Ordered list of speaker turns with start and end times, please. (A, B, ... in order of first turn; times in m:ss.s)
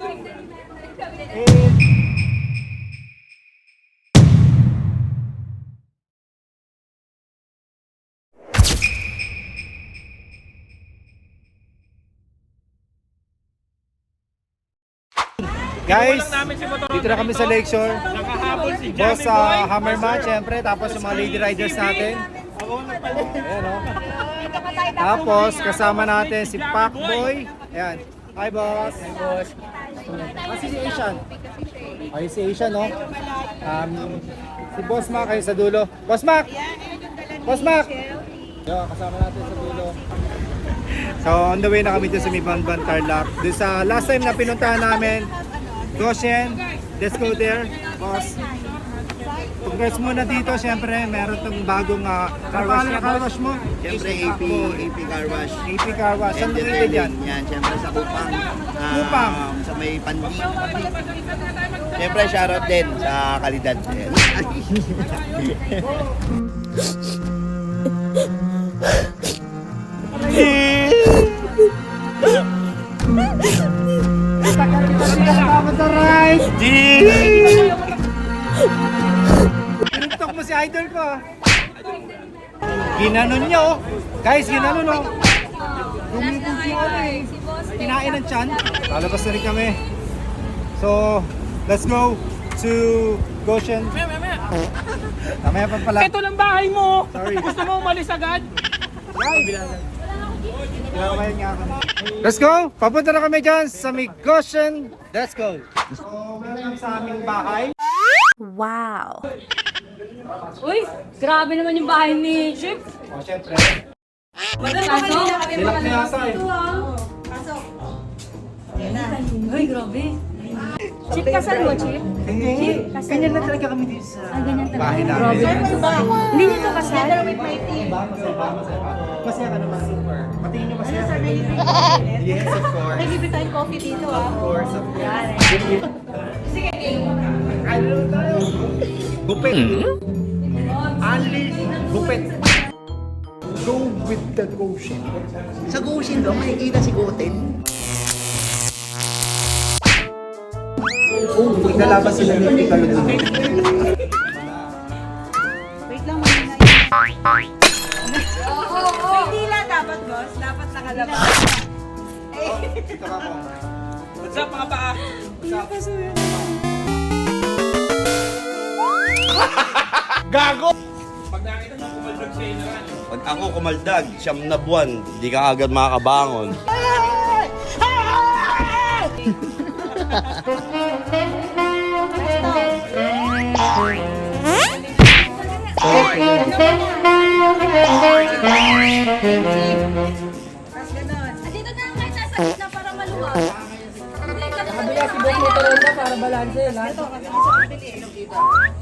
0:01.3-0:01.8 A
0:15.8-0:18.1 A
0:18.2-0:18.8 B
0:18.7-0:22.3 A
0:23.2-0:23.9 A
0:24.9-0:29.3 A
0:30.2-0:31.2 A
0:32.1-0:33.0 A
0:33.6-0:36.5 A
0:37.4-0:38.0 A
0:38.6-0:40.0 A
0:41.2-0:45.3 A
0:46.0-0:48.4 A
0:49.6-0:54.8 A
0:53.8-0:55.6 C
0:55.6-0:57.2 A
0:56.3-1:01.2 C
0:58.9-0:59.4 A
1:01.9-1:05.8 C
1:10.4-1:11.2 C
1:14.4-1:16.6 A
1:16.6-1:17.7 C
1:17.2-1:17.7 A
1:19.9-1:21.2 A
1:22.8-1:25.2 A
1:25.8-1:27.9 D
1:26.1-1:29.8 A
1:30.8-1:34.0 A
1:35.4-1:36.2 A
1:36.2-1:37.1 B
1:37.1-1:37.8 A
1:37.7-1:38.5 B
1:39.1-1:39.8 A
1:40.9-1:47.7 A
1:48.4-1:49.3 D
1:50.6-1:52.9 D
1:53.1-1:53.8 A
1:54.6-1:56.9 D
1:54.7-1:55.4 E
1:55.5-1:56.5 A
1:58.8-2:00.2 D
2:01.1-2:03.5 D
2:02.2-2:06.0 A
2:04.3-2:07.4 D
2:05.7-2:07.9 E
2:07.7-2:11.6 A
2:11.2-2:12.4 E
2:12.2-2:13.2 A
2:13.0-2:14.8 E
2:14.2-2:15.1 A
2:14.9-2:15.7 D
2:17.6-2:18.6 A
2:19.2-2:19.9 A
2:21.0-2:22.4 A
2:23.6-2:25.1 A
2:25.7-2:27.5 C
2:31.3-2:33.5 A
2:35.9-2:36.9 E
2:38.4-2:39.5 D
2:38.5-2:41.6 E
2:42.4-2:43.5 A
2:42.5-2:42.9 E
2:45.2-2:46.1 D
2:45.4-2:45.9 A
2:51.4-2:52.8 B
2:53.1-2:56.6 C
3:02.3-3:02.7 E
3:05.9-3:06.8 E
3:09.3-3:09.8 E
3:10.8-3:11.4 E
3:11.4-3:13.6 D
3:14.2-3:16.0 D
3:14.7-3:17.1 A
3:17.1-3:18.2 E